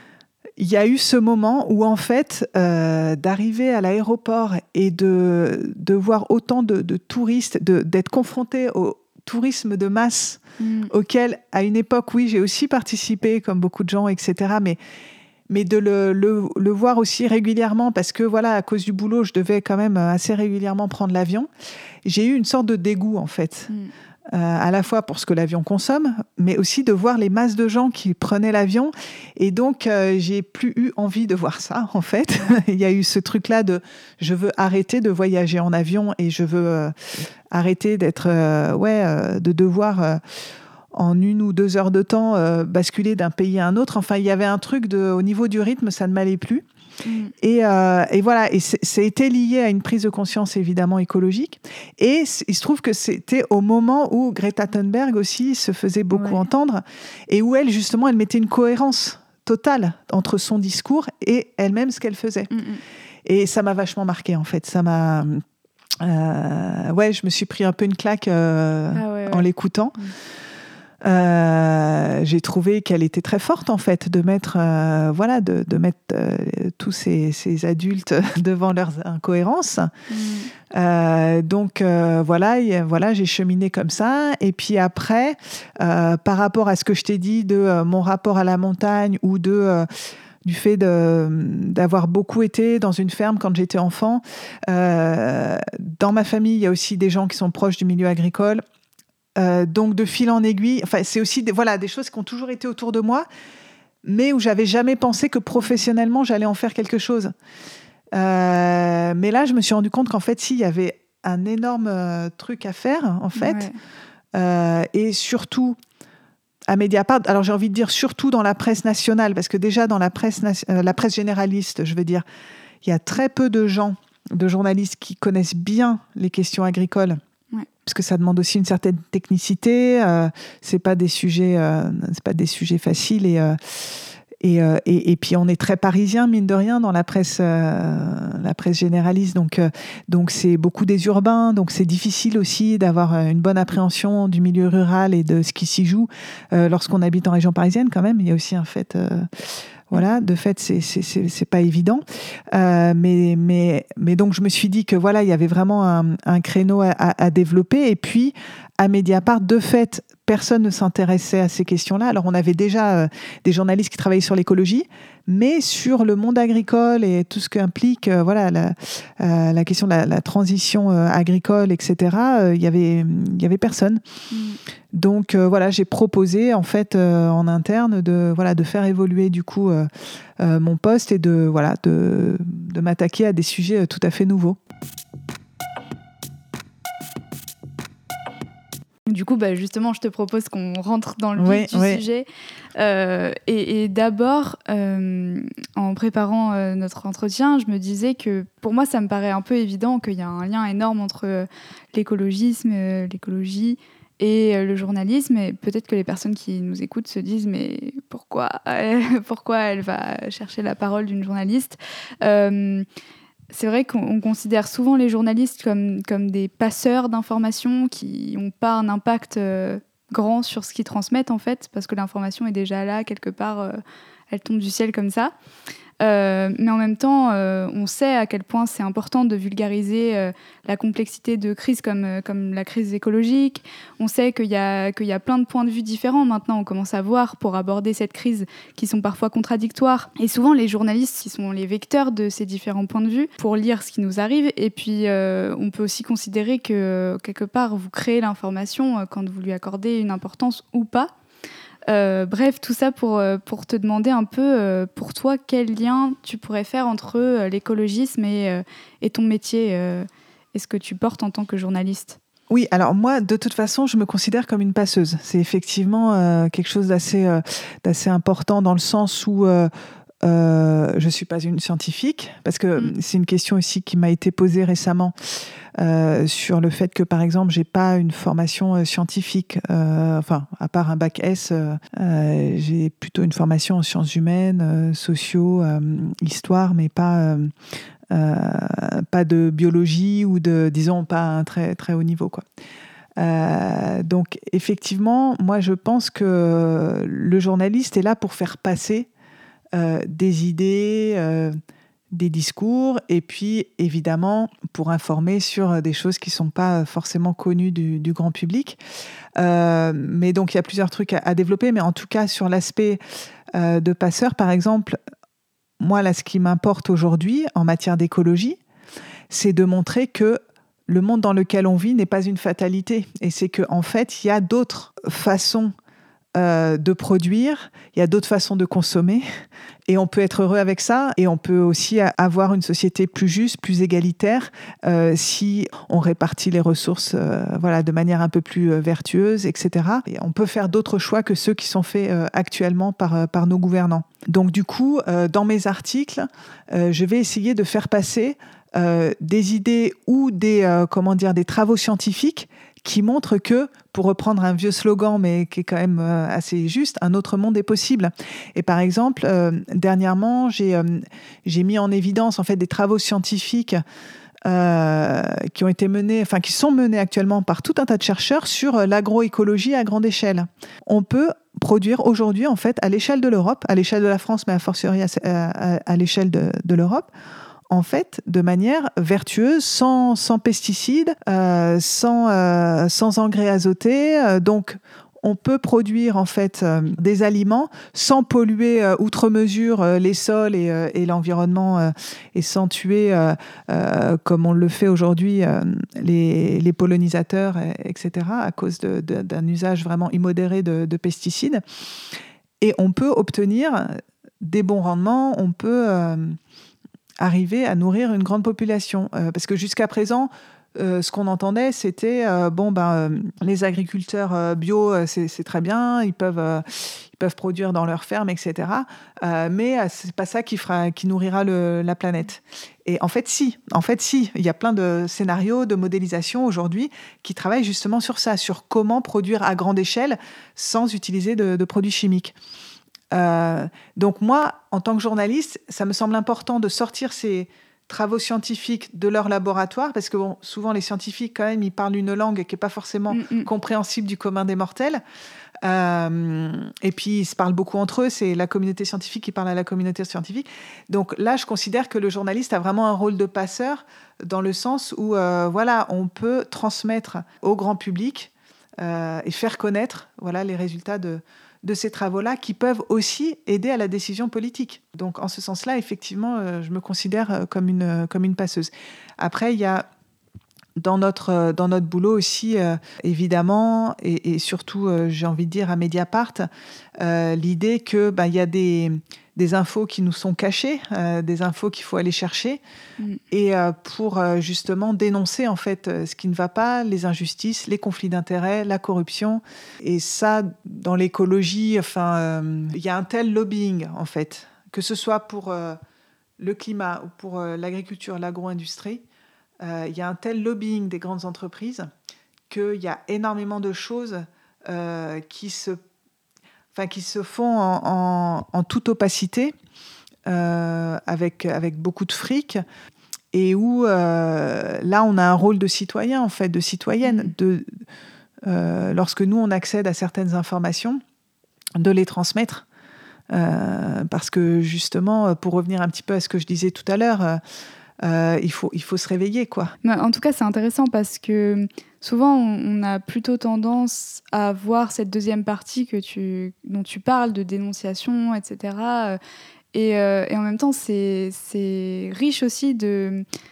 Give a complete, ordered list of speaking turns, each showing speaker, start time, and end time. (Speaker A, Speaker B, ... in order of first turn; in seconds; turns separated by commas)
Speaker A: 0.6-14.8, Speaker B: 10.6-10.9, Speaker A: 15.5-21.5, Speaker A: 22.0-23.7, Speaker A: 24.3-40.2, Speaker A: 40.9-46.6, Speaker B: 47.0-47.3, Speaker A: 47.4-62.5, Speaker B: 56.1-56.4, Speaker B: 62.5-62.8, Speaker A: 63.2-65.4, Speaker A: 66.0-70.0, Speaker B: 68.9-70.1, Speaker A: 71.0-79.9, Speaker B: 80.1-80.5, Speaker A: 80.7-89.9, Speaker A: 90.4-98.6, Speaker A: 99.4-103.2, Speaker A: 104.0-107.3, Speaker A: 108.1-113.7, Speaker B: 113.3-113.8, Speaker A: 114.3-115.8, Speaker A: 116.7-122.2, Speaker A: 122.8-127.2, Speaker A: 127.8-133.7, Speaker A: 134.4-174.0, Speaker B: 174.3-174.6, Speaker A: 174.9-184.6, Speaker B: 189.1-212.8, Speaker A: 191.4-192.0, Speaker B: 213.5-223.8, Speaker B: 224.3-225.3, Speaker B: 226.0-251.1, Speaker B: 251.9-262.2, Speaker A: 262.5-269.7, Speaker A: 270.2-275.1, Speaker A: 275.8-287.5, Speaker A: 288.1-292.4, Speaker A: 293.2-299.1, Speaker A: 299.7-301.6, Speaker A: 302.1-308.8, Speaker A: 309.4-313.0, Speaker A: 313.5-315.0, Speaker A: 315.8-318.6, Speaker A: 319.3-325.7, Speaker A: 326.4-329.2, Speaker A: 329.9-363.8, Speaker A: 364.4-377.1, Speaker A: 377.7-401.6, Speaker A: 402.6-406.4, Speaker A: 407.2-432.3, Speaker A: 433.1-445.0, Speaker B: 443.1-443.5, Speaker A: 445.6-469.9, Speaker A: 470.8-476.4, Speaker A: 477.0-482.6, Speaker A: 483.3-495.8, Speaker A: 496.4-499.0, Speaker A: 499.6-501.9, Speaker A: 502.5-505.8, Speaker A: 506.7-509.5, Speaker A: 510.2-512.6, Speaker A: 513.3-517.8, Speaker B: 517.0-517.3, Speaker A: 518.5-521.0, Speaker A: 521.8-522.6, Speaker A: 523.3-527.4, Speaker A: 528.0-529.7, Speaker B: 529.8-539.2, Speaker B: 539.7-543.2